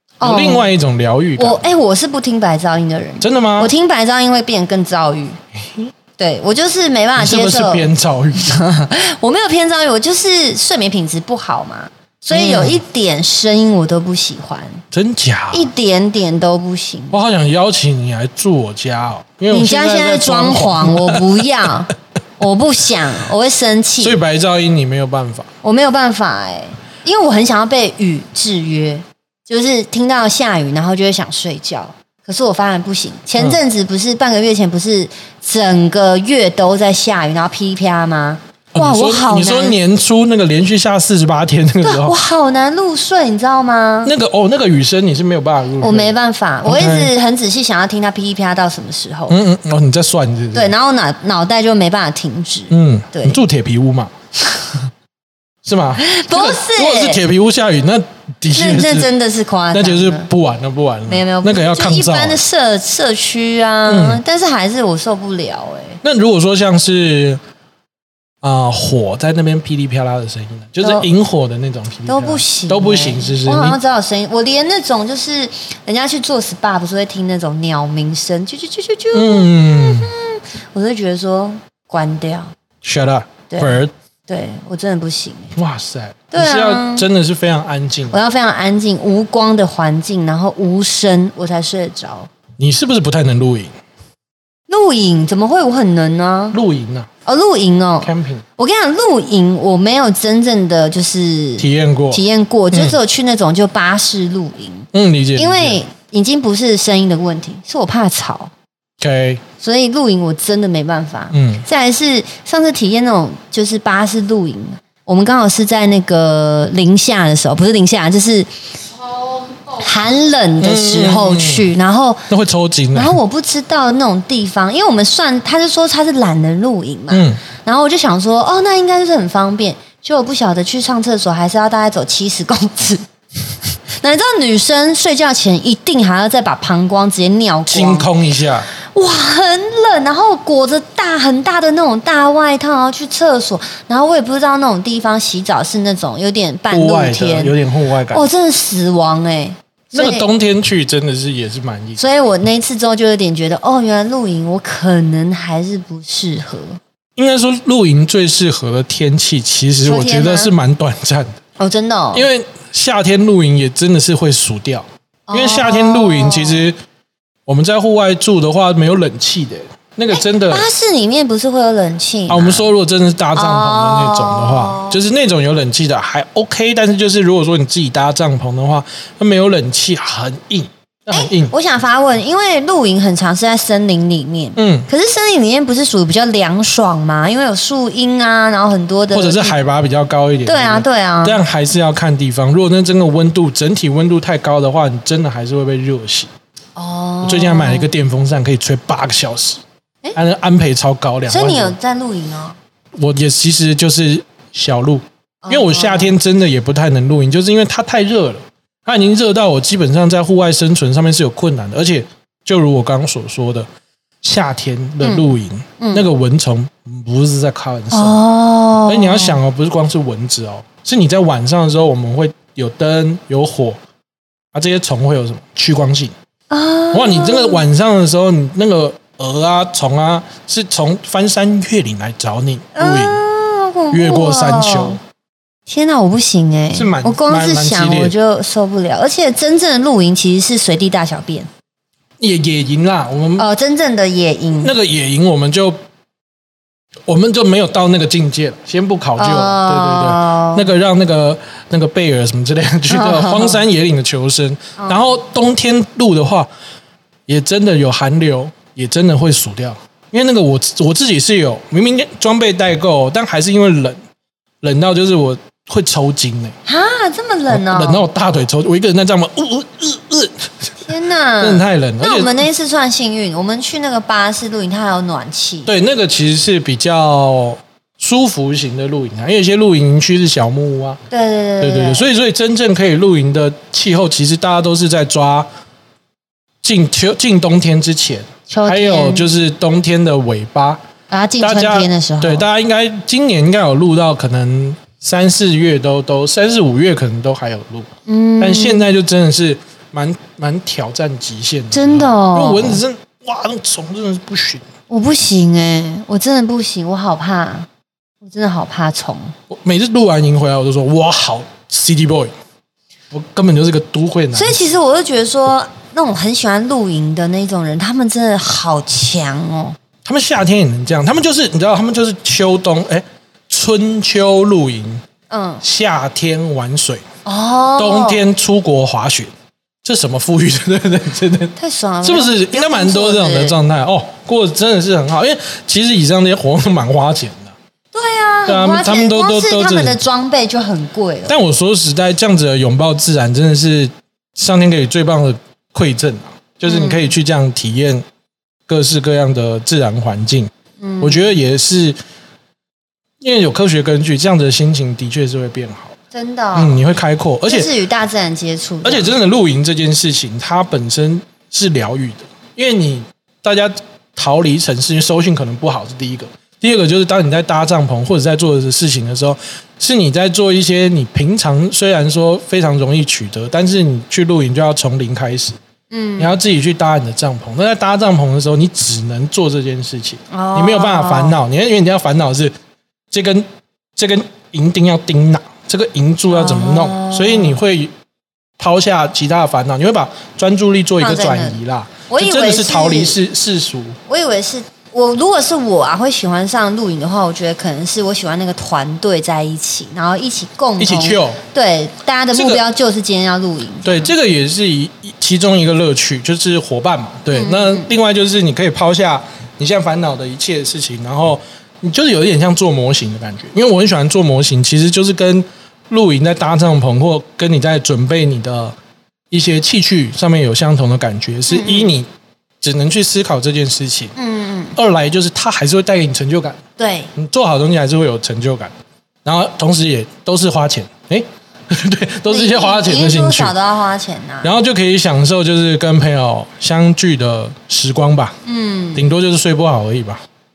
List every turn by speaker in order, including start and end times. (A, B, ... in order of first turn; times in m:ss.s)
0:00.2-0:00.7 A
0:00.2-0:01.6 B
0:01.4-0:05.4 A
0:03.2-0:03.7 B
0:06.2-0:14.8 A
0:07.2-0:08.6 B
0:12.3-0:12.8 B
0:14.9-0:15.7 B
0:15.5-0:17.2 A
0:17.1-0:21.7 B
0:19.5-0:24.2 A
0:24.0-0:25.5 B
0:25.6-0:39.8 A
0:38.7-0:42.2 B
0:41.8-0:44.1 A
0:44.0-0:47.1 B
0:45.8-0:49.4 A
0:49.3-0:50.7 B
0:50.5-0:53.4 A
0:52.7-0:54.1 B
0:55.6-0:59.1 B
0:56.0-0:57.2 A
0:58.5-1:00.3 A
0:59.7-1:02.4 B
1:01.1-1:06.0 A
1:03.9-1:04.2 B
1:06.0-1:07.4 B
1:08.4-1:13.8 B
1:10.8-1:11.1 A
1:12.0-1:22.5 A
1:19.1-1:20.1 B
1:22.8-1:23.9 B
1:23.5-1:25.5 A
1:25.5-1:28.2 B
1:26.3-1:27.1 A
1:28.1-1:32.3 A
1:32.6-1:33.7 B
1:34.7-1:36.6 A
1:36.5-1:37.1 B
1:37.2-1:48.5 A
1:38.0-1:38.4 B
1:41.6-1:43.0 B
1:44.9-1:45.8 B
1:49.0-1:49.4 B
1:49.6-1:58.5 A
1:51.3-1:51.6 B
1:59.3-2:02.3 A
2:00.6-2:01.7 B
2:02.3-2:03.2 B
2:02.9-2:13.0 A
2:07.1-2:07.4 B
2:13.9-2:18.1 A
2:17.7-2:18.7 B
2:18.8-2:27.5 A
2:26.7-2:28.2 B
2:28.1-2:30.2 A
2:29.9-2:32.0 B
2:32.0-2:36.8 A
2:37.2-2:41.4 B
2:39.8-2:40.5 A
2:41.6-2:42.3 A
2:42.1-2:46.8 B
2:45.3-2:46.7 A
2:47.5-2:50.7 B
2:50.1-2:52.7 A
2:52.3-3:01.5 B
2:53.3-2:55.0 A
3:01.1-3:09.6 A
3:04.6-3:04.9 B
3:09.1-3:16.3 B
3:10.4-3:11.4 A
3:16.8-3:17.9 A
3:17.2-3:19.6 B
3:20.1-3:21.7 B
3:21.3-3:22.6 A
3:23.0-3:33.7 B
3:25.4-3:26.1 A
3:34.2-3:38.2 B
3:35.0-3:35.3 A
3:35.8-3:36.1 A
3:37.9-3:39.4 A
3:38.8-3:43.8 B
3:44.5-3:46.1 B
3:46.5-3:47.6 A
3:46.9-3:53.2 B
3:52.7-3:55.0 A
3:53.9-3:55.0 B
3:55.7-4:01.5 A
3:56.7-3:58.1 B
4:02.2-4:03.4 B
4:03.4-4:04.7 A
4:04.6-4:05.8 B
4:07.1-4:16.5 B
4:09.2-4:10.7 A
4:12.9-4:13.6 A
4:14.8-4:15.0 A
4:17.3-4:24.0 B
4:24.6-4:26.5 B
4:26.6-4:28.0 A
4:27.5-4:30.4 B
4:30.8-4:35.7 A
4:31.4-4:32.4 B
4:35.6-4:41.0 B
4:41.1-4:42.0 A
4:41.6-4:45.5 B
4:46.6-4:50.8 B
4:48.5-4:49.3 A
4:51.1-4:52.4 A
4:51.4-4:57.9 B
4:58.0-4:58.9 A
4:58.4-5:04.6 B
5:01.7-5:02.8 A
5:04.9-5:07.7 A
5:08.2-5:09.3 A
5:09.5-5:12.3 B
5:13.1-5:14.7 B
5:14.3-5:19.8 A
5:20.0-5:25.0 B
5:25.3-5:25.6 A
5:25.6-5:27.0 B
5:27.2-5:28.2 A
5:27.8-5:29.3 B
5:29.8-5:37.5 B
5:31.6-5:33.6 A
5:37.9-5:41.3 A
5:38.5-5:40.0 B
5:41.3-5:48.0 B
5:46.6-5:47.1 A
5:48.7-5:52.0 B
5:50.8-5:51.3 A
5:53.2-5:55.9 B
5:56.1-5:56.8 A
5:56.5-5:57.7 B
5:57.4-5:59.1 A
5:58.8-6:15.6 B
6:15.9-6:16.3 A
6:16.2-6:22.5 B
6:20.3-6:21.4 A
6:23.1-6:27.9 B
6:26.3-6:27.6 A
6:28.6-6:34.0 B
6:31.0-6:33.2 A
6:34.1-6:44.1 A
6:40.8-6:41.4 B
6:42.3-6:42.6 B
6:43.8-6:58.7 B
6:47.3-6:47.9 A
6:59.3-7:02.1 B
7:01.5-7:01.9 A
7:02.6-7:04.1 B
7:04.2-7:04.7 A
7:04.7-7:06.6 B
7:06.8-7:07.1 A
7:07.1-7:08.7 B
7:09.2-7:13.5 B
7:12.3-7:14.5 A
7:14.4-7:18.3 B
7:18.4-7:19.1 A
7:18.9-7:20.2 B